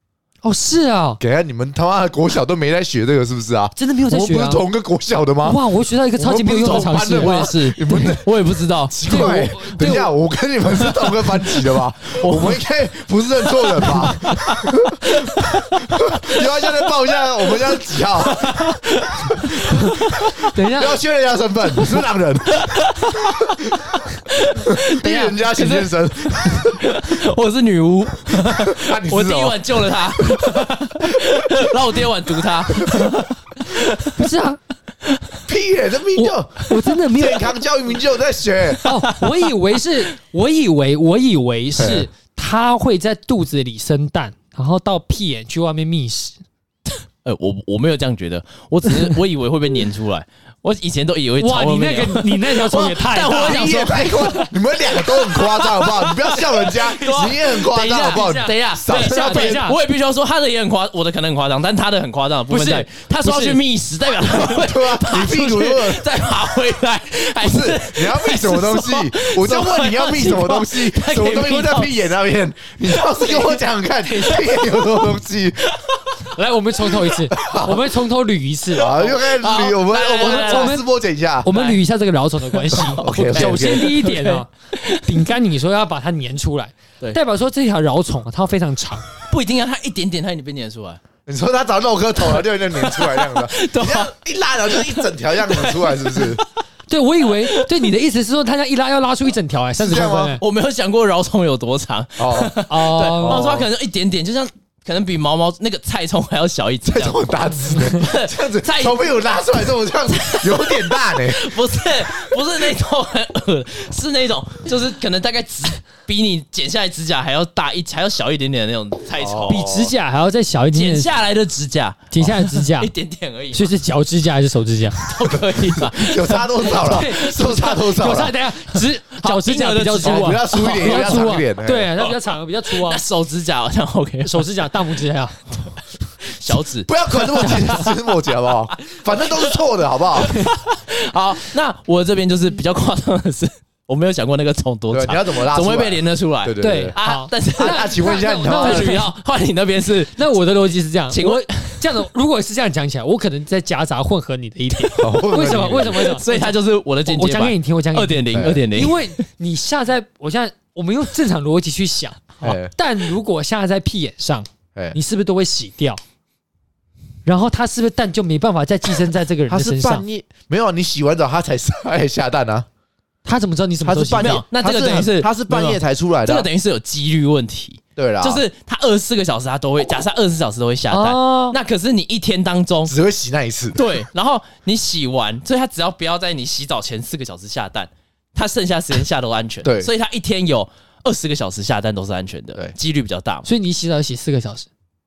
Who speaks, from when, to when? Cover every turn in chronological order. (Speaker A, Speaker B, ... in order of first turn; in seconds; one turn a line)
Speaker A: 0.4-1.2
Speaker B: 1.2-5.6
Speaker A: 3.8-4.6
Speaker A: 5.4-7.9
Speaker B: 6.2-8.3
Speaker C: 6.5-9.3
Speaker B: 8.9-18.6
Speaker A: 9.0-10.1
Speaker C: 10.8-11.2
Speaker C: 12.2-12.6
Speaker C: 13.6-20.5
Speaker B: 19.3-23.9
Speaker A: 19.6-21.0
Speaker C: 22.6-23.6
Speaker C: 24.3-34.2
Speaker B: 24.6-27.2
Speaker A: 25.0-25.3
Speaker B: 28.3-31.7
Speaker B: 32.8-33.2
Speaker A: 34.1-34.6
Speaker B: 35.5-38.9
Speaker A: 36.1-37.6
Speaker C: 38.7-39.5
Speaker A: 38.8-46.4
Speaker B: 41.8-42.1
Speaker C: 47.2-72.1
Speaker A: 51.4-54.4
Speaker B: 53.3-59.7
Speaker A: 57.0-57.3
Speaker A: 57.9-59.8
Speaker A: 62.5-63.6
Speaker B: 64.2-66.1
Speaker B: 67.4-75.8
Speaker C: 73.0-75.2
Speaker C: 75.7-76.0
Speaker A: 76.3-78.9
Speaker B: 77.3-78.0
Speaker B: 78.7-81.5
Speaker C: 78.8-80.8
Speaker A: 80.2-80.8
Speaker A: 81.4-89.1
Speaker C: 81.5-81.8
Speaker C: 82.5-85.3
Speaker B: 82.7-84.0
Speaker C: 89.2-91.0
Speaker B: 91.3-96.4
Speaker C: 92.3-94.1
Speaker C: 94.7-96.5
Speaker A: 96.9-100.4
Speaker B: 99.8-100.4
Speaker C: 100.4-107.2
Speaker B: 102.2-102.6
Speaker A: 102.7-103.6
Speaker B: 103.2-103.7
Speaker B: 106.8-111.6
Speaker C: 107.8-109.0
Speaker C: 110.1-119.6
Speaker B: 119.2-119.9
Speaker A: 119.5-121.1
Speaker C: 120.7-123.7
Speaker A: 122.1-122.9
Speaker A: 123.5-125.1
Speaker C: 125.0-127.1
Speaker B: 125.7-128.3
Speaker A: 126.6-133.0
Speaker C: 128.7-131.4
Speaker B: 130.0-131.9
Speaker C: 132.7-134.5
Speaker A: 134.2-135.5
Speaker C: 136.3-139.6
Speaker B: 136.9-140.4
Speaker A: 137.4-137.8
Speaker C: 140.2-150.2
Speaker B: 144.9-147.0
Speaker A: 146.6-149.1
Speaker B: 147.6-149.0
Speaker A: 150.2-166.0
Speaker C: 151.1-151.8
Speaker B: 155.0-156.1
Speaker C: 155.9-159.1
Speaker B: 158.3-158.6
Speaker B: 162.4-162.7
Speaker A: 167.2-170.1
Speaker B: 169.5-172.7
Speaker A: 173.2-174.4
Speaker B: 173.8-176.5
Speaker C: 174.2-182.9
Speaker B: 178.0-178.4
Speaker A: 180.9-181.6
Speaker B: 182.9-183.8
Speaker C: 183.8-193.5
Speaker B: 189.6-189.9
Speaker A: 193.4-194.7